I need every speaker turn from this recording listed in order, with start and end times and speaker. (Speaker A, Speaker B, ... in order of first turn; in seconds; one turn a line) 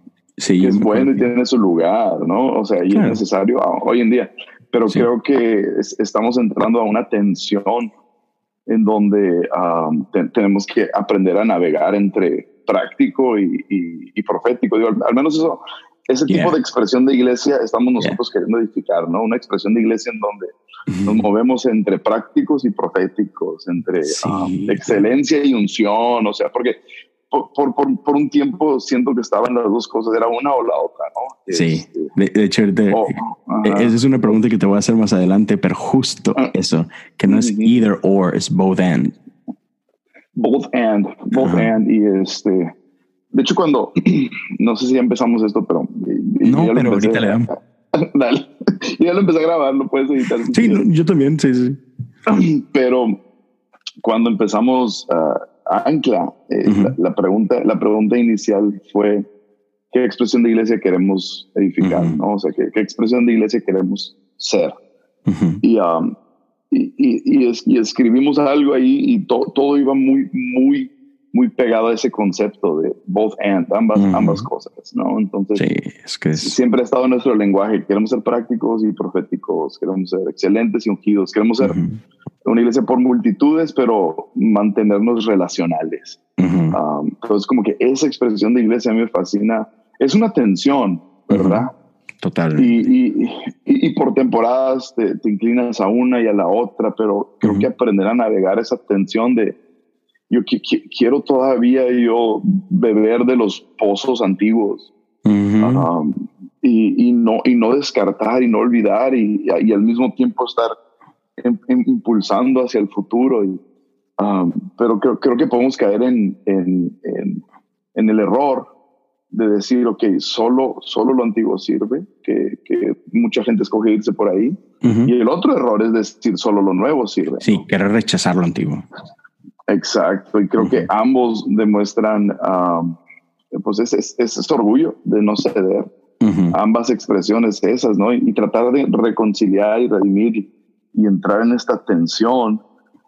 Speaker A: 0.4-1.3
Speaker B: 0.6-7.9
Speaker A: 2.9-3.2
Speaker B: 8.7-20.5
Speaker A: 16.3-16.6
Speaker A: 20.9-21.3
Speaker B: 21.0-26.8
Speaker A: 24.0-25.0
Speaker B: 27.3-32.1
Speaker A: 31.5-39.1
Speaker B: 32.9-34.3
Speaker B: 37.2-37.8
Speaker B: 40.4-42.7
Speaker A: 41.4-41.7
Speaker B: 43.3-50.8
Speaker A: 46.4-47.5
Speaker A: 50.5-51.8
Speaker B: 52.3-53.2
Speaker B: 54.0-59.2
Speaker A: 56.6-56.9
Speaker B: 59.9-64.7
Speaker A: 61.8-62.2
Speaker A: 65.3-65.6
Speaker B: 65.6-66.1
Speaker B: 66.7-75.6
Speaker A: 73.9-74.5
Speaker A: 75.5-76.5
Speaker B: 76.3-81.8
Speaker A: 81.6-82.0
Speaker B: 82.4-86.2
Speaker A: 86.4-86.8
Speaker B: 86.7-91.7
Speaker A: 91.3-91.7
Speaker A: 92.2-92.9
Speaker B: 92.6-99.5
Speaker B: 100.3-104.9
Speaker A: 105.2-105.9
Speaker B: 105.6-110.7
Speaker B: 111.4-113.6
Speaker B: 114.2-117.4
Speaker B: 117.9-118.7
Speaker B: 119.3-127.6
Speaker A: 124.8-125.1
Speaker A: 127.4-128.8
Speaker B: 129.7-133.0
Speaker A: 130.6-130.9
Speaker B: 133.5-135.9
Speaker A: 136.2-136.6
Speaker B: 136.5-142.6